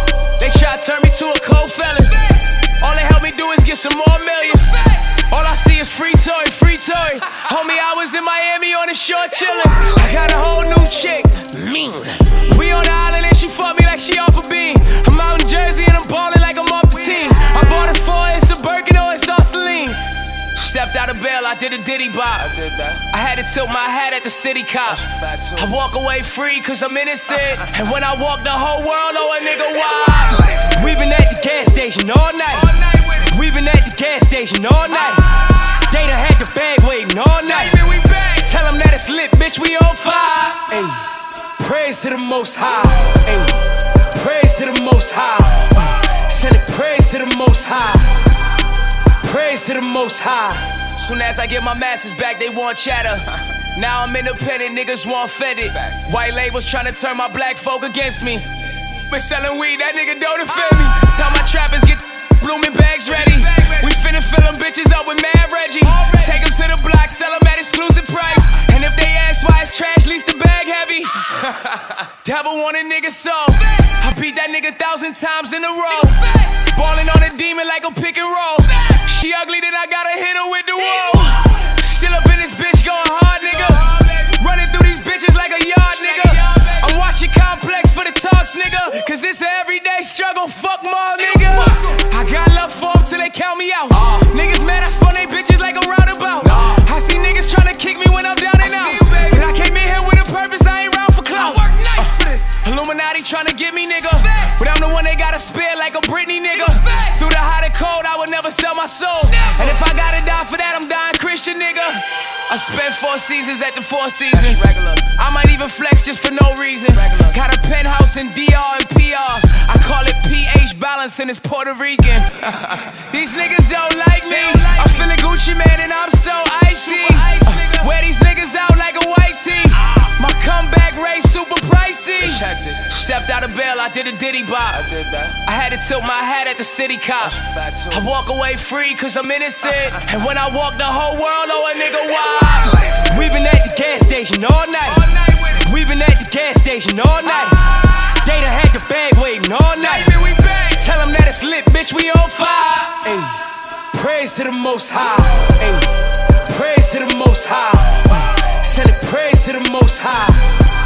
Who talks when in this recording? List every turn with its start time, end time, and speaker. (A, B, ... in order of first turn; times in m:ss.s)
0:00.4-0:20.0 A
0:20.5-0:48.1 A
0:49.2-0:58.5 A
0:59.1-1:11.4 A
1:12.2-2:35.9 A
2:36.4-2:40.5 A